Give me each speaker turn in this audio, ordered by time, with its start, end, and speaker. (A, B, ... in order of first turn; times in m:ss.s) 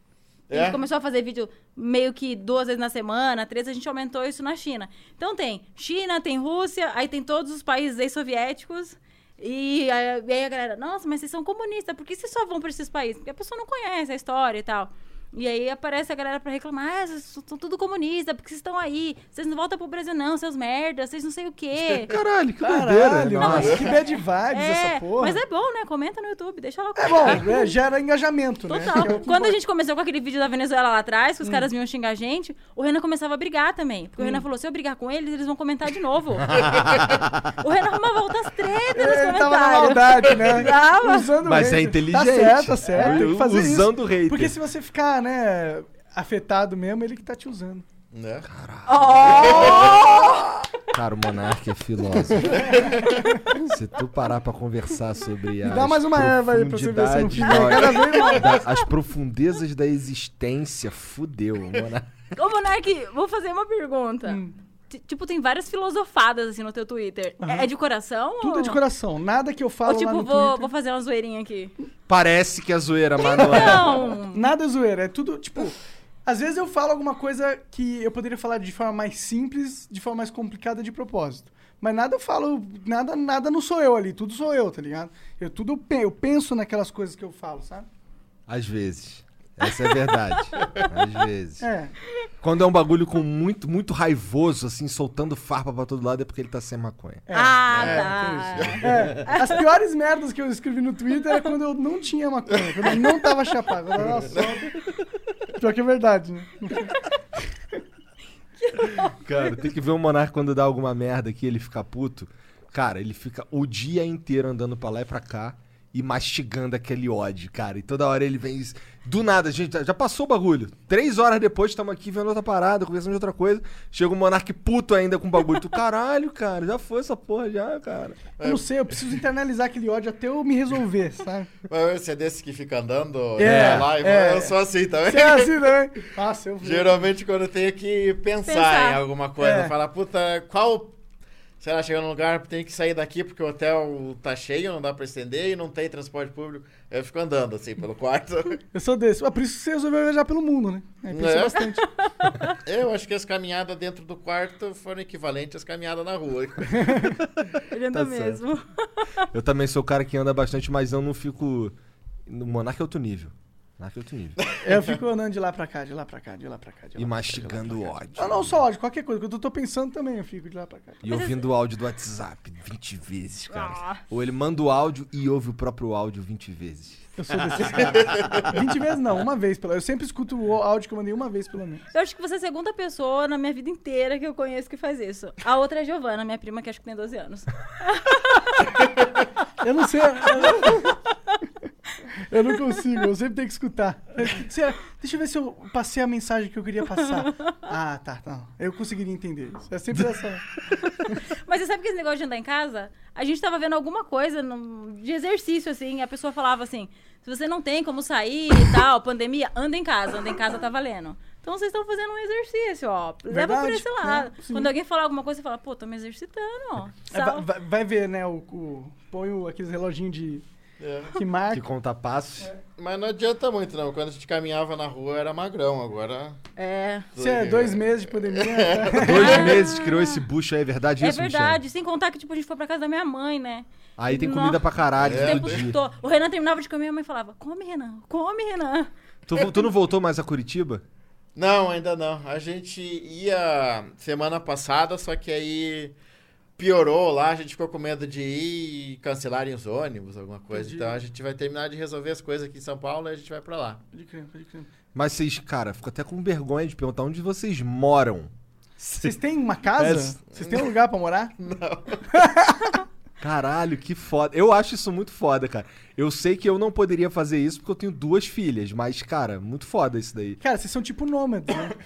0:00.5-0:00.8 A
0:00.5-0:22.1 B
0:21.9-0:23.9 C
0:22.6-0:25.4 D
0:23.4-0:27.7 B
0:27.0-0:29.5 D
0:28.7-0:36.7 B
0:31.4-0:31.7 D
0:36.4-0:37.5 C
0:37.6-0:41.3 B
0:38.9-0:47.8 D
0:41.4-0:44.6 C
0:48.1-0:48.5 A
0:48.5-0:50.0 C
0:48.9-0:50.5 B
0:49.2-0:50.1 A
0:49.9-0:50.5 D
0:50.9-0:52.8 C
0:52.4-0:53.4 A
0:52.4-0:53.0 D
0:53.5-1:02.1 C
0:55.6-0:58.6 D
0:57.5-0:58.8 B
1:02.3-1:08.8 B
1:04.3-1:04.5 D
1:07.4-1:07.7 D
1:08.4-1:10.7 D
1:09.8-1:11.7 B
1:12.1-1:14.0 C
1:13.2-1:14.4 B
1:14.3-1:27.9 D
1:28.5-1:31.7 C
1:31.6-1:31.9 D
1:32.4-1:37.2 C
1:37.3-1:44.7 D
1:37.3-1:39.6 B
1:37.7-1:38.9 A
1:44.3-1:44.6 A
1:45.5-1:47.0 D
1:48.6-1:49.6 B
1:49.2-2:08.2 C
2:08.4-2:08.7 A
2:08.4-2:11.5 D
2:11.7-2:15.6 A
2:13.4-2:17.1 D
2:13.4-2:13.9 C
2:16.6-2:21.0 A
2:18.4-2:19.0 B
2:19.4-2:19.7 D
2:21.6-2:28.6 A
2:28.7-2:31.9 D
2:31.1-2:31.6 A
2:31.8-2:32.5 B
2:32.6-2:37.1 A
2:36.7-2:37.1 D
2:37.7-2:39.2 B
2:37.9-2:38.4 C
2:39.3-2:41.7 C
2:42.3-2:44.4 C
2:44.4-2:44.8 A
2:44.6-2:51.1 D
2:47.0-2:48.6 C
2:51.0-2:57.8 C
2:51.0-2:51.4 B
2:53.5-2:54.0 B
2:57.2-3:01.8 D
2:57.8-2:58.5 A
3:01.9-3:08.7 B
3:09.6-3:11.0 D
3:10.4-3:10.8 B
3:12.2-3:20.4 D
3:20.8-3:37.4 B
3:33.3-3:34.7 D
3:37.1-3:40.4 D
3:40.8-3:41.2 A
3:41.1-3:41.6 D
3:41.5-3:42.5 C
3:42.8-3:46.4 A
3:46.6-3:47.1 B
3:47.1-3:49.6 A
3:47.2-3:49.4 D
3:49.0-3:51.6 C
3:49.1-3:50.2 B
3:51.0-3:58.9 B
3:54.0-3:55.8 C
3:55.0-3:55.7 A
3:59.3-4:00.8 C
4:01.3-4:06.0 A
4:06.6-4:13.8 A
4:10.5-4:11.0 D
4:13.9-4:14.7 D
4:14.9-4:19.2 C
4:19.0-4:21.3 D
4:19.8-4:20.2 C
4:20.3-4:20.7 A
4:21.4-4:22.0 A
4:22.1-4:22.8 D
4:23.2-4:30.4 C
4:30.4-4:31.7 D